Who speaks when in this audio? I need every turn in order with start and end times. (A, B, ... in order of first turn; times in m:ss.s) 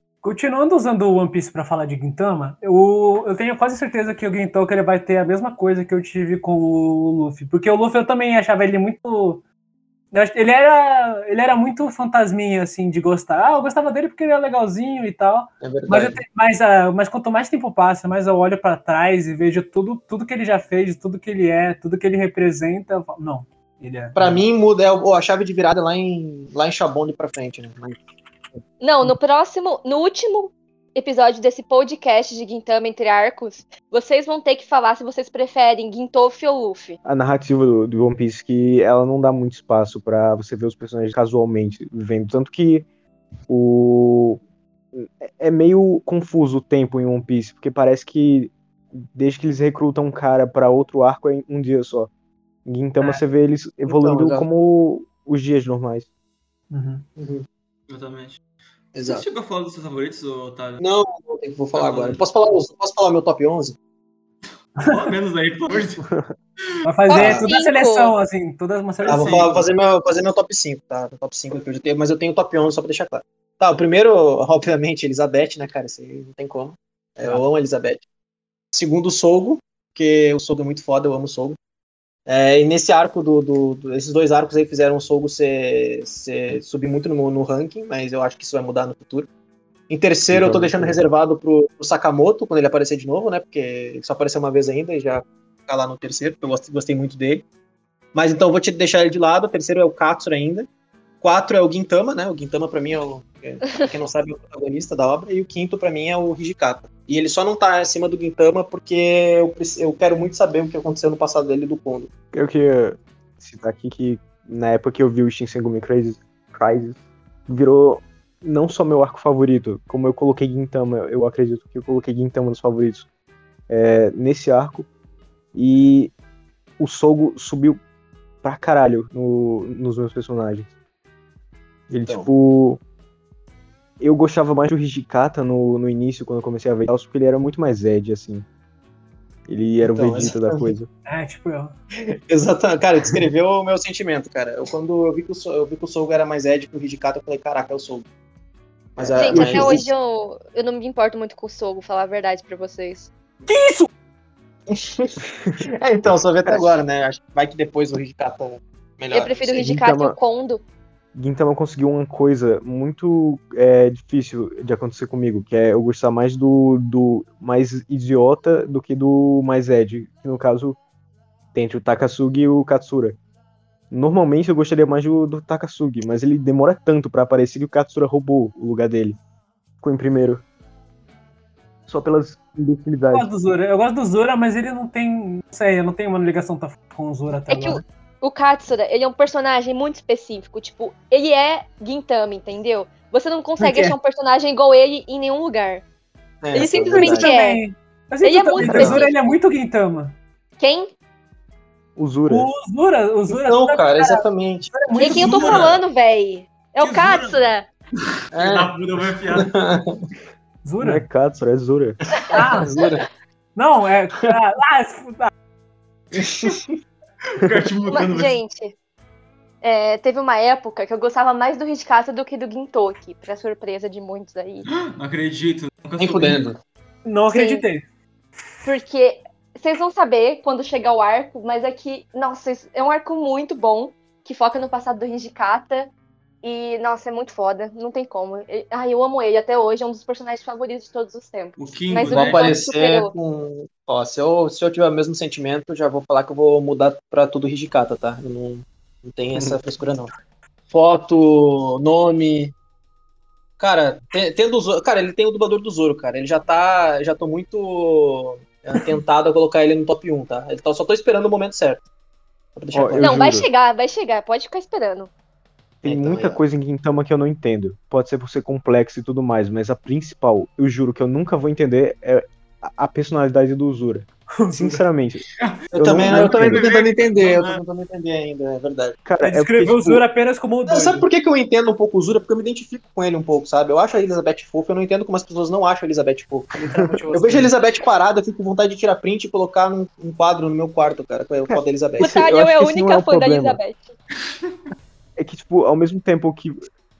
0:00.2-0:09.4 A
0:10.1-0:24.4 A
0:15.6-0:16.2 B
0:24.2-0:28.0 B
0:28.8-0:37.0 C
0:37.0-0:42.8 D
0:43.5-0:44.4 D
0:44.9-0:52.1 D
0:52.6-0:56.1 D
0:53.9-0:54.4 B
0:56.7-0:57.0 A
0:57.2-0:57.4 B
0:57.9-0:58.4 E
0:59.0-0:59.2 B
0:59.0-1:00.8 E
1:00.8-1:03.8 B
1:01.7-1:02.2 E
1:04.8-1:06.1 E
1:06.8-1:09.7 A
1:07.1-1:08.1 C
1:07.1-1:07.5 B
1:09.0-1:18.0 B
1:09.0-1:09.5 E
1:18.7-1:21.6 B
1:22.3-1:29.3 B
1:29.9-1:37.4 B
1:30.3-1:31.0 D
1:38.1-1:40.7 B
1:41.2-1:52.1 B
1:52.3-2:03.0 D
2:03.7-2:04.9 D
2:05.5-2:06.1 D
2:06.8-2:07.8 D
2:08.4-2:10.7 D
2:11.9-2:12.8 D
2:14.0-2:18.4 D
2:19.5-2:20.9 D
2:19.8-2:20.7 B
2:21.0-2:21.7 A
2:22.1-2:28.0 B
2:29.0-2:29.8 B
2:29.0-2:29.9 D
2:29.2-2:33.1 C
2:33.4-2:33.9 A
2:34.7-2:39.7 B
2:39.1-2:40.6 C
2:39.6-2:40.2 D
2:41.1-2:50.8 D
2:51.5-2:53.2 D
2:53.9-2:59.2 D
2:59.8-3:00.4 D
3:01.9-3:03.2 D
3:03.1-3:07.8 A
3:07.5-3:15.8 C
3:13.6-3:13.9 A
3:16.4-3:17.3 B
3:16.5-3:17.6 C
3:16.9-3:20.2 A
3:18.2-3:19.3 C
3:18.6-3:19.0 B
3:20.6-3:20.9 C
3:22.0-3:22.5 D
3:22.3-3:25.6 A
3:23.3-3:24.7 B
3:24.9-3:27.7 C
3:25.1-3:25.8 E
3:26.8-3:27.4 E
3:28.0-3:29.5 E
3:28.3-3:28.7 B
3:29.3-3:30.0 B
3:30.6-3:31.0 A
3:30.8-3:32.0 D
3:32.2-3:33.0 B
3:32.3-3:32.8 A
3:33.5-3:35.3 A
3:36.1-3:36.7 B
3:37.3-3:38.4 E
3:37.9-3:38.7 C
3:39.6-3:44.7 C
3:44.7-3:46.5 E
3:46.0-3:46.6 B
3:47.0-3:47.8 A
3:47.3-3:47.6 C
3:48.6-3:55.9 C
3:56.4-4:03.1 C
4:01.6-4:02.6 E
4:02.1-4:10.1 B
4:10.7-4:12.5 B
4:13.6-4:21.8 B
4:22.5-4:23.2 B
4:22.7-4:23.5 D
4:23.0-4:25.1 C
4:25.8-4:36.6 D
4:25.8-4:26.4 B
4:34.4-4:34.8 A
4:35.4-4:37.6 E
4:35.7-4:39.0 B
4:39.0-4:40.0 D
4:39.2-4:41.1 A
4:40.7-4:46.5 B
4:46.5-4:47.5 A
4:47.1-4:52.1 B
4:51.5-4:53.6 D
4:52.0-4:53.8 C
4:55.2-4:56.7 D